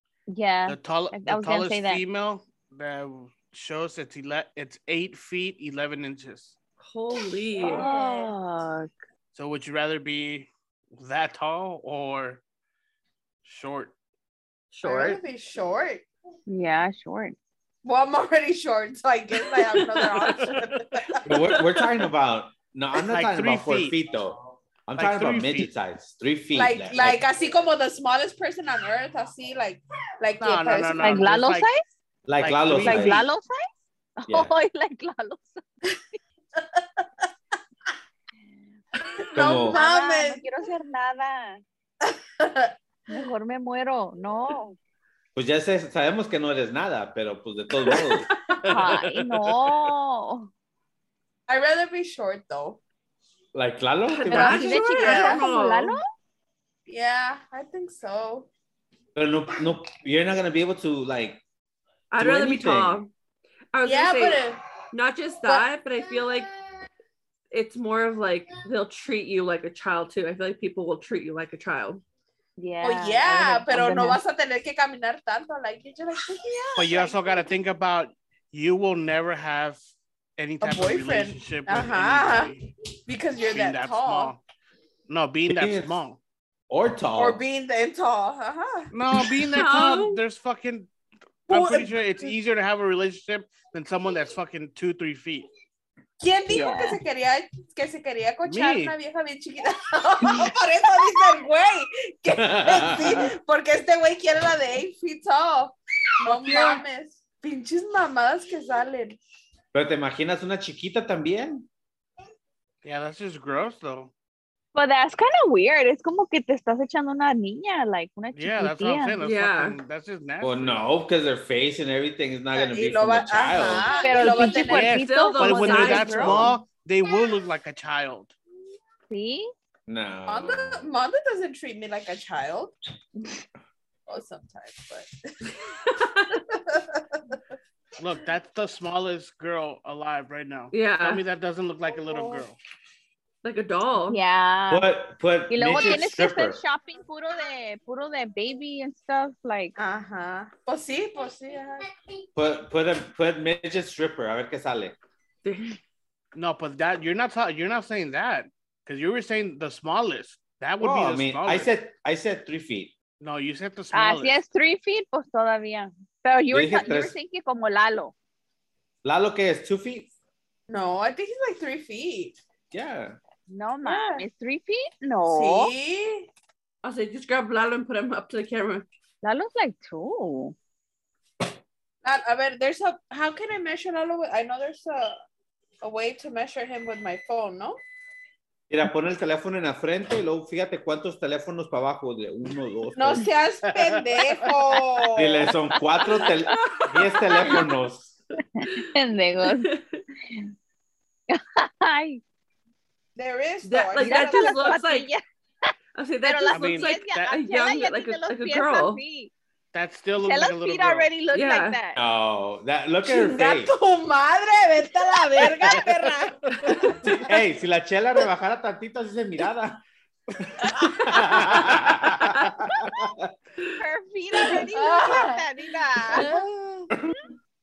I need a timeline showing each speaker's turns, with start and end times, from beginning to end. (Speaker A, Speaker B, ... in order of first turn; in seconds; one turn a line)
Speaker A: 0.3-2.0
Speaker B: 0.7-6.6
Speaker C: 6.8-7.9
Speaker D: 7.6-8.3
Speaker A: 7.6-8.9
Speaker B: 9.3-12.4
Speaker B: 13.4-13.9
Speaker C: 14.7-15.2
Speaker D: 14.8-16.1
Speaker A: 16.5-17.4
Speaker D: 17.8-21.3
Speaker B: 20.2-20.8
Speaker E: 21.2-24.4
Speaker C: 21.5-21.8
Speaker B: 23.0-24.0
Speaker E: 24.9-27.2
Speaker B: 25.0-25.7
Speaker D: 26.6-31.2
Speaker B: 30.4-31.7
Speaker A: 31.0-31.8
Speaker E: 32.3-33.2
Speaker B: 32.4-33.3
Speaker A: 32.8-35.6
Speaker E: 34.3-34.5
Speaker D: 36.6-37.0
Speaker D: 39.2-40.5
Speaker E: 39.4-39.8
Speaker A: 39.6-41.6
Speaker D: 42.0-42.7
Speaker A: 43.1-44.8
Speaker E: 45.4-48.3
Speaker C: 47.9-48.6
Speaker B: 48.6-49.9
Speaker A: 48.7-50.5
Speaker D: 51.5-52.8
Speaker E: 53.5-54.8
Speaker C: 54.1-56.0
Speaker A: 54.3-56.0
Speaker D: 54.8-55.4
Speaker D: 56.9-58.5
Speaker E: 59.2-61.4
Speaker C: 62.1-63.1
Speaker E: 62.2-63.0
Speaker C: 63.7-66.5
Speaker D: 63.9-64.6
Speaker C: 67.5-72.0
Speaker A: 72.6-74.2
Speaker D: 72.8-77.5
Speaker B: 76.8-79.8
Speaker B: 80.4-82.7
Speaker D: 80.6-84.3
Speaker B: 83.5-84.4
Speaker B: 85.1-86.2
Speaker E: 85.5-86.0
Speaker E: 86.7-87.4
Speaker D: 87.2-88.9
Speaker B: 88.9-90.9
Speaker C: 89.5-90.2
Speaker B: 91.5-95.5
Speaker D: 91.5-92.3
Speaker D: 96.2-109.2
Speaker A: 96.5-97.0
Speaker B: 98.5-99.0
Speaker E: 102.4-103.3
Speaker B: 106.2-106.8
Speaker E: 109.7-111.7
Speaker B: 112.8-114.1
Speaker A: 114.8-119.2
Speaker B: 118.3-120.8
Speaker C: 119.2-119.8
Speaker E: 120.4-123.9
Speaker D: 122.5-124.9
Speaker A: 124.0-126.6
Speaker C: 124.2-126.5
Speaker B: 124.6-128.4
Speaker A: 129.1-129.5
Speaker E: 129.9-130.9
Speaker D: 130.3-132.8
Speaker D: 134.1-135.5
Speaker C: 135.7-136.4
Speaker D: 136.3-137.4
Speaker B: 138.0-142.6
Speaker C: 140.7-141.2
Speaker D: 142.0-142.4
Speaker C: 143.4-144.2
Speaker A: 144.1-144.9
Speaker E: 144.7-146.6
Speaker A: 145.5-149.8
Speaker D: 149.8-151.9
Speaker E: 152.4-155.0
Speaker C: 155.4-155.8
Speaker B: 156.3-161.7
Speaker E: 160.8-162.9
Speaker B: 163.2-164.4
Speaker A: 163.9-168.1
Speaker E: 166.5-167.2
Speaker E: 169.0-170.1
Speaker D: 170.7-172.4
Speaker E: 172.7-173.2
Speaker A: 173.5-175.7
Speaker D: 173.8-174.2
Speaker D: 175.3-176.3
Speaker C: 176.8-178.9
Speaker A: 179.2-180.6
Speaker D: 182.0-185.2
Speaker D: 185.8-187.8
Speaker E: 188.7-193.3
Speaker D: 193.0-195.5
Speaker B: 193.6-194.9
Speaker E: 195.2-198.2
Speaker C: 196.5-197.7
Speaker A: 198.6-199.7
Speaker C: 199.4-200.0
Speaker A: 201.3-202.2
Speaker D: 203.2-204.7
Speaker C: 203.7-205.1
Speaker A: 204.0-205.7
Speaker C: 205.9-209.0
Speaker A: 206.2-209.3
Speaker B: 206.5-207.3
Speaker B: 209.7-211.1
Speaker A: 210.2-212.0
Speaker C: 211.3-211.8
Speaker E: 212.0-213.7
Speaker D: 213.0-217.3
Speaker B: 215.6-217.2
Speaker E: 217.2-219.8
Speaker E: 220.3-223.3
Speaker A: 223.8-226.4
Speaker D: 224.4-225.5
Speaker D: 226.0-226.9